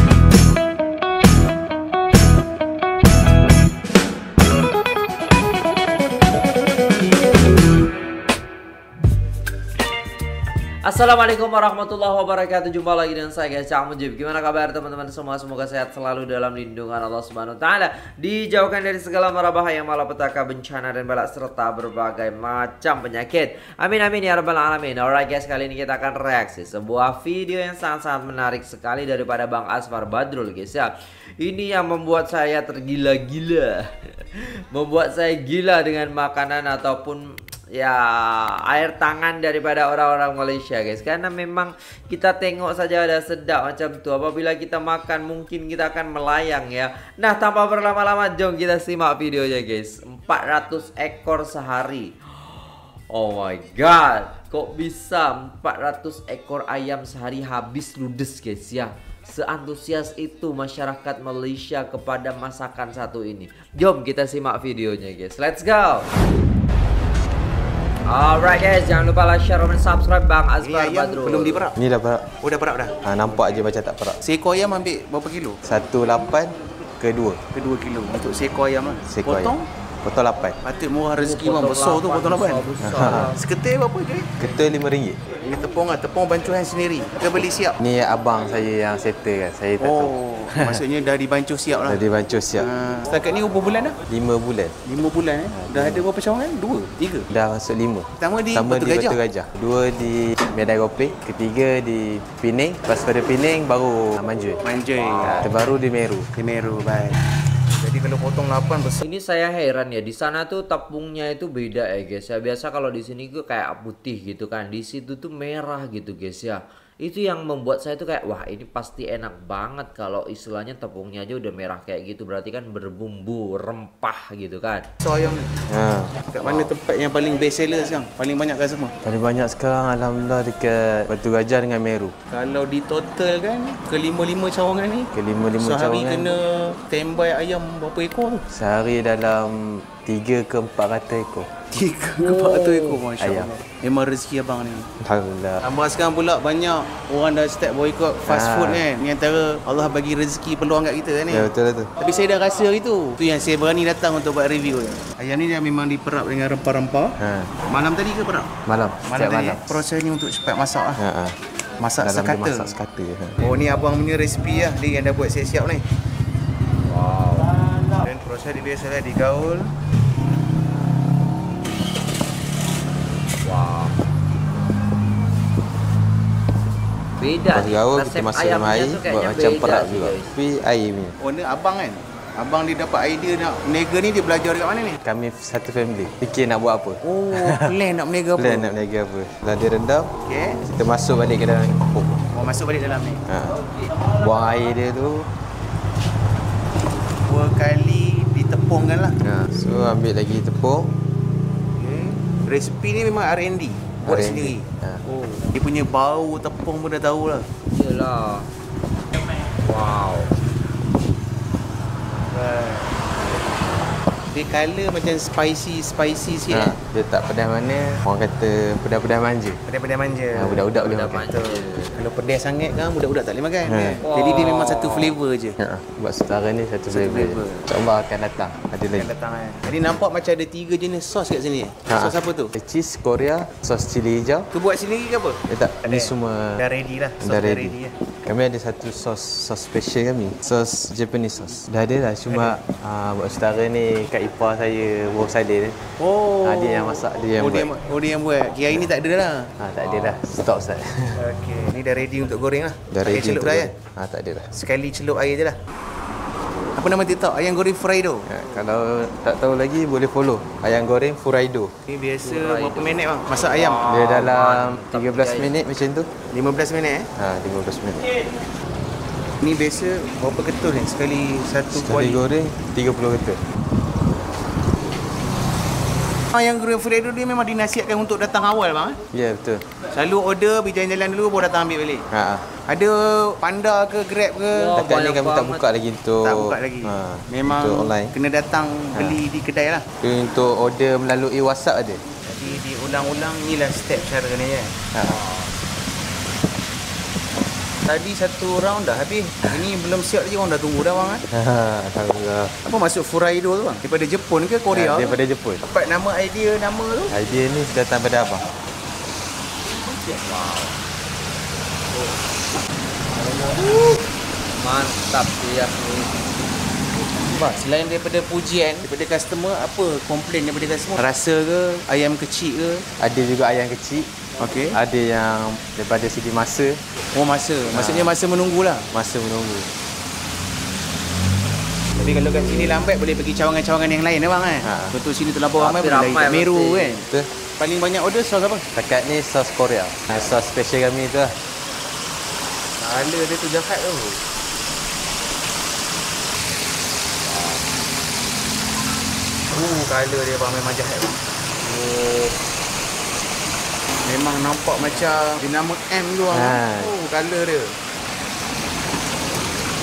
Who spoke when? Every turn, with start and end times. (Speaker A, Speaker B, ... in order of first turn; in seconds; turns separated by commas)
Speaker A: 10.8-33.9, Speaker A: 34.7-66.1, Speaker A: 68.1-71.7, Speaker B: 70.6-71.8, Speaker C: 71.8-72.3, Speaker B: 72.4-73.0, Speaker C: 73.0-74.2, Speaker B: 74.2-75.6, Speaker C: 75.6-77.4, Speaker B: 77.5-79.7, Speaker C: 79.1-80.6, Speaker B: 80.6-84.5, Speaker A: 81.2-83.4, Speaker C: 82.8-83.3, Speaker C: 84.4-85.2, Speaker B: 85.4-87.8, Speaker C: 87.8-90.8, Speaker B: 89.8-92.0, Speaker C: 91.8-92.7, Speaker B: 92.6-94.0, Speaker C: 94.1-94.8, Speaker B: 94.8-97.3, Speaker C: 95.5-96.1, Speaker C: 97.3-104.6, Speaker B: 98.2-99.2, Speaker B: 104.6-105.5, Speaker C: 105.2-106.3, Speaker A: 105.2-105.5, Speaker B: 106.3-109.0, Speaker A: 109.0-124.9, Speaker B: 125.0-125.5, Speaker C: 125.7-126.7, Speaker B: 126.3-128.9, Speaker C: 129.0-132.2, Speaker B: 132.3-138.4, Speaker C: 135.1-136.3, Speaker C: 138.5-141.6, Speaker B: 141.7-144.9, Speaker A: 142.2-142.7, Speaker C: 143.2-143.5, Speaker C: 145.0-145.6, Speaker B: 145.6-158.5, Speaker C: 148.3-148.9, Speaker C: 151.3-151.9, Speaker C: 157.2-157.5, Speaker C: 158.7-159.8, Speaker B: 159.1-161.0, Speaker C: 161.0-161.4, Speaker B: 161.8-162.8, Speaker C: 162.0-163.4, Speaker B: 163.4-165.8, Speaker A: 166.8-167.5, Speaker B: 167.9-169.7, Speaker A: 173.4-173.9, Speaker A: 177.2-180.3, Speaker C: 177.5-181.2, Speaker B: 181.2-185.0, Speaker C: 185.0-187.8, Speaker B: 187.0-188.7, Speaker C: 188.4-190.1, Speaker B: 190.2-190.6, Speaker C: 190.6-192.2, Speaker B: 192.3-193.2, Speaker C: 193.3-195.3, Speaker B: 197.3-199.2, Speaker C: 199.2-200.9, Speaker B: 201.8-207.5, Speaker C: 204.1-205.0, Speaker A: 207.7-208.5, Speaker A: 209.6-210.3, Speaker B: 212.3-213.0, Speaker B: 214.3-216.8, Speaker C: 216.5-219.6, Speaker B: 219.7-220.7, Speaker C: 220.3-221.3, Speaker A: 220.8-222.0, Speaker B: 221.3-225.6, Speaker C: 223.7-224.0, Speaker A: 224.0-225.2, Speaker C: 225.6-229.1, Speaker B: 226.9-227.7, Speaker B: 228.9-232.5, Speaker C: 231.9-234.5, Speaker B: 234.5-237.9, Speaker C: 235.5-236.6, Speaker C: 237.2-245.8, Speaker B: 242.3-242.6, Speaker B: 246.0-249.5, Speaker C: 246.4-247.7, Speaker C: 249.6-251.2, Speaker B: 251.2-253.7, Speaker C: 252.9-254.5, Speaker B: 254.5-255.6, Speaker B: 256.8-258.3, Speaker C: 258.3-261.7, Speaker B: 261.9-264.1, Speaker A: 262.2-265.6, Speaker C: 263.9-266.1, Speaker B: 266.3-267.1, Speaker C: 267.2-268.1, Speaker B: 269.4-272.3, Speaker C: 271.7-273.4, Speaker B: 276.3-279.0, Speaker C: 279.1-279.7, Speaker B: 279.9-282.1, Speaker C: 282.1-282.5, Speaker B: 282.6-284.7, Speaker A: 284.5-285.6, Speaker C: 284.8-288.1, Speaker B: 286.2-289.9, Speaker C: 290.0-292.0, Speaker B: 292.3-294.8, Speaker C: 294.9-295.2, Speaker A: 295.0-295.5, Speaker B: 297.9-301.2, Speaker C: 301.3-302.6, Speaker B: 302.6-307.1, Speaker C: 304.7-305.6, Speaker C: 307.1-308.5, Speaker A: 310.2-310.8, Speaker A: 314.6-316.2, Speaker B: 317.2-322.9, Speaker C: 323.0-324.1, Speaker B: 324.4-324.8, Speaker C: 324.7-326.8, Speaker B: 327.1-328.9, Speaker C: 327.7-328.1, Speaker C: 328.9-329.7, Speaker B: 332.0-338.7, Speaker C: 334.6-334.9, Speaker A: 335.6-337.0, Speaker C: 338.8-341.4, Speaker B: 342.8-344.2, Speaker A: 347.2-347.6, Speaker B: 349.5-351.2, Speaker A: 351.6-352.3, Speaker B: 354.1-357.8, Speaker A: 354.8-355.2, Speaker C: 356.3-356.9